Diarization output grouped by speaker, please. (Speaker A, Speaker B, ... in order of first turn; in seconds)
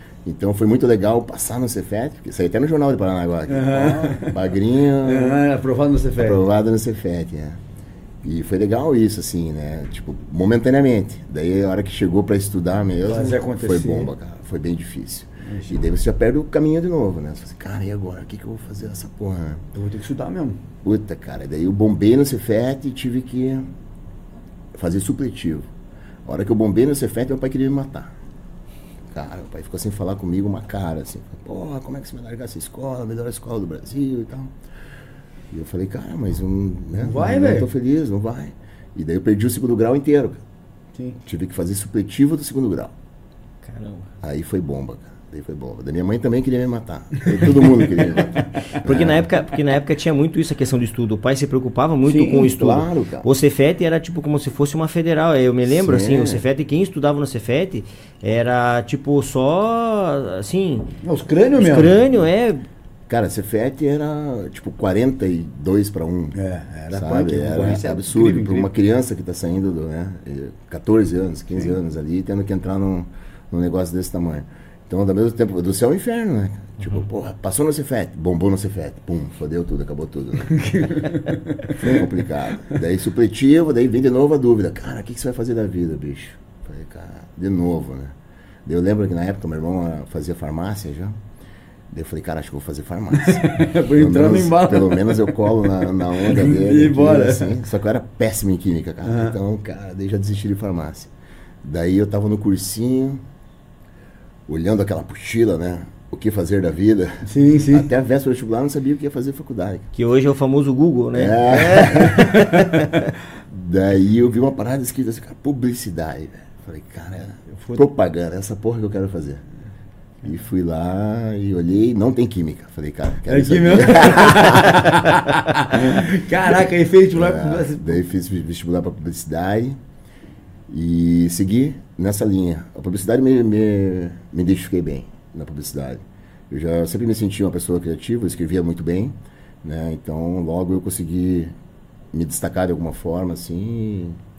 Speaker A: 0.2-5.5, 6.2-7.6, 8.2-19.6, 20.8-23.7, 24.7-25.7, 26.2-28.1, 29.1-34.5, 35.5-40.4, 41.2-42.9, 44.2-49.3, 52.2-53.3, 55.7-56.5, 63.1-66.4, 66.9-80.8, 81.7-91.2, 91.9-101.1, 101.6-103.2, 104.5-109.9, 111.1-112.5, 113.5-119.4, 120.2-125.0, 127.1-129.8, 130.7-141.5, 142.1-144.2
Speaker B: 3.5-4.4, 5.0-6.4, 13.1-14.1, 15.4-15.8, 19.7-20.6, 37.0-37.7, 48.2-48.7, 52.0-52.5, 61.0-62.0, 66.3-68.7, 80.5-81.8, 93.2-97.6, 99.0-99.4, 107.2-107.9, 111.9-112.9, 117.5-117.8, 123.3-128.0
Speaker C: 43.6-44.1, 48.9-60.9, 61.6-62.6, 110.0-113.1